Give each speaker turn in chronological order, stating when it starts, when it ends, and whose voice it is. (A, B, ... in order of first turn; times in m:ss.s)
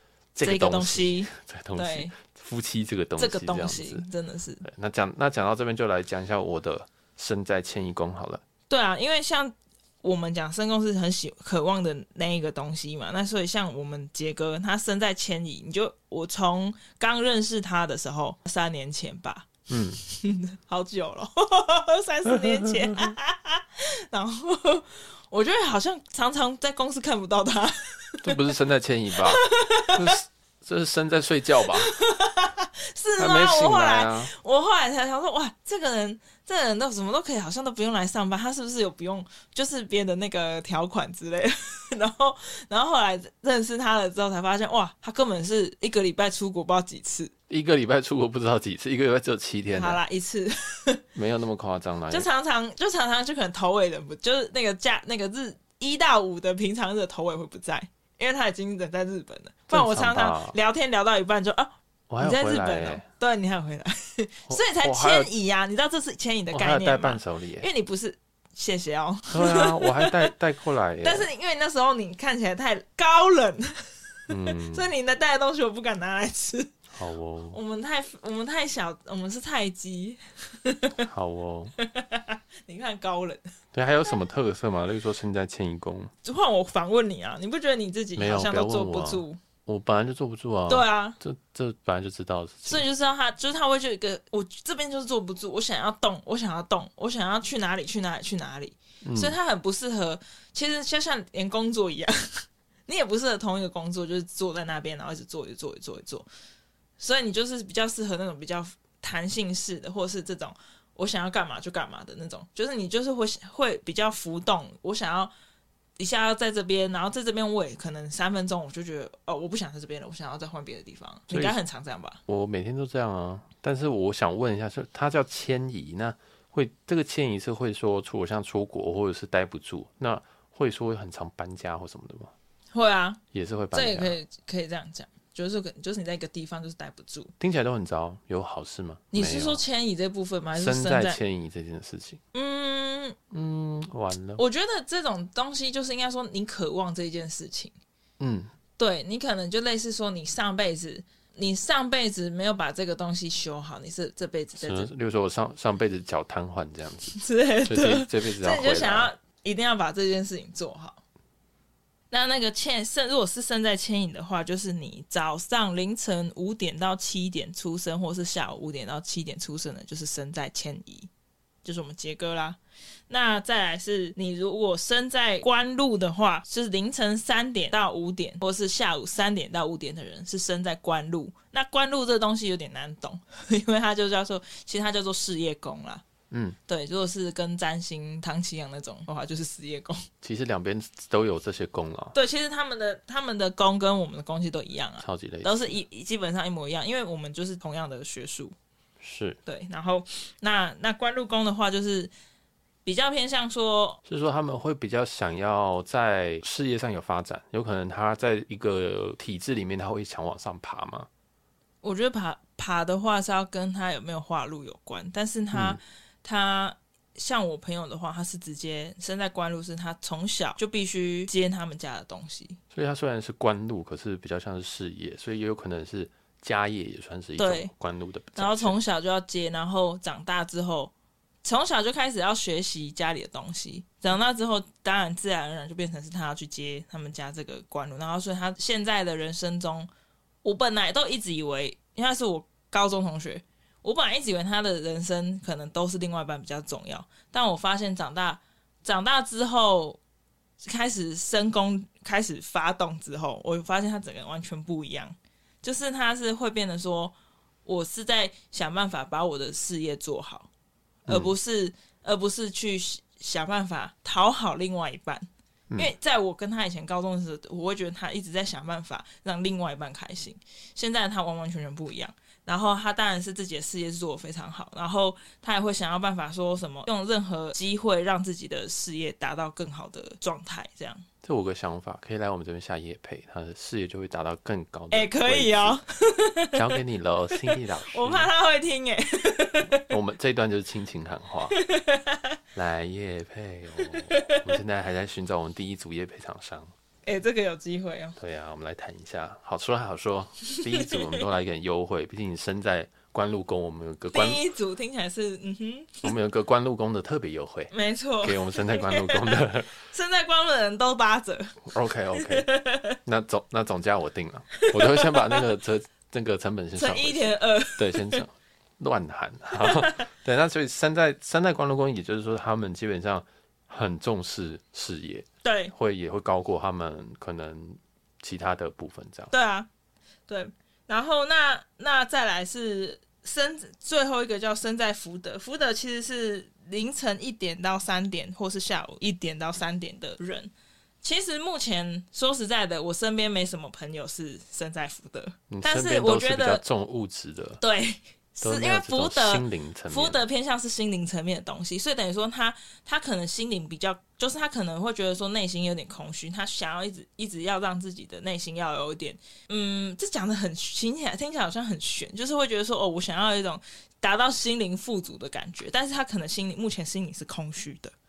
0:00.4-0:04.0 A
0:00.4-0:02.2 B
0:03.2-0:04.6 B
0:04.6-0:08.4 A
0:08.7-0:28.5 B
0:19.7-0:20.0 A
0:28.2-0:31.9 A
0:29.2-0:30.2 B
0:31.7-0:47.3 B
0:33.2-0:34.3 A
0:47.5-0:50.0 A
0:49.7-0:51.0 B
0:51.2-0:52.3 A
0:52.1-1:10.3 B
0:59.7-1:00.6 A
1:02.1-1:03.0 A
1:04.5-1:05.3 A
1:06.5-1:07.7 A
1:09.3-1:11.3 A
1:11.0-1:16.7 B
1:14.3-1:14.9 A
1:16.9-1:17.6 A
1:17.5-1:21.1 B
1:21.0-1:21.8 A
1:21.8-1:23.5 B
1:23.7-1:26.1 A
1:26.2-1:29.4 B
1:28.2-1:32.8 A
1:30.7-1:31.2 B
1:32.7-1:46.3 B
1:39.0-1:39.4 A
1:47.0-1:55.3 B
1:56.0-2:02.2 B
2:01.3-2:01.6 A
2:02.3-2:12.3 A
2:12.7-2:13.2 B
2:13.3-2:14.2 A
2:13.7-2:17.3 B
2:17.4-2:19.6 A
2:19.1-2:21.2 B
2:20.6-2:22.2 A
2:22.3-2:23.2 B
2:23.3-2:24.4 A
2:24.4-2:27.8 B
2:28.2-2:28.5 A
2:28.8-2:34.9 B
2:34.6-2:37.2 A
2:37.1-2:41.0 B
2:37.7-2:39.1 A
2:42.1-2:51.1 B
2:51.6-2:52.6 B
2:53.1-3:06.0 B
3:06.3-3:06.6 A
3:06.7-3:10.1 B
3:10.2-3:12.2 A
3:12.1-3:18.6 B
3:15.0-3:15.8 A
3:19.0-3:19.4 A
3:19.5-3:22.1 B
3:22.8-3:24.0 B
3:24.0-3:31.1 A
3:31.8-3:42.6 B
3:35.5-3:35.8 A
3:42.7-3:48.8 A
3:47.4-3:47.7 B
3:48.4-3:59.9 B
4:00.4-4:10.0 B
4:10.6-4:17.1 B
4:17.6-4:20.5 B
4:21.1-4:21.3 A
4:21.1-4:41.0 B
4:41.2-4:45.8 A
4:44.9-4:46.8 B
4:46.5-4:48.3 A
4:47.5-4:49.9 B
4:49.8-4:51.6 A
4:51.5-4:52.4 B
4:52.6-4:56.7 A
4:53.8-4:54.5 B
4:57.0-4:58.2 B
4:58.2-5:04.4 A
5:00.6-5:01.1 B
5:04.1-5:06.1 B
5:06.0-5:09.8 A
5:07.7-5:13.0 B
5:11.7-5:12.5 A
5:13.0-5:29.3 A
5:14.6-5:15.4 B
5:16.8-5:18.2 B
5:19.6-5:20.0 B
5:25.4-5:25.7 B
5:29.3-5:29.7 B
5:30.3-5:46.6 B
5:45.5-5:47.6 A
5:47.6-6:07.9 B
5:48.4-5:50.2 A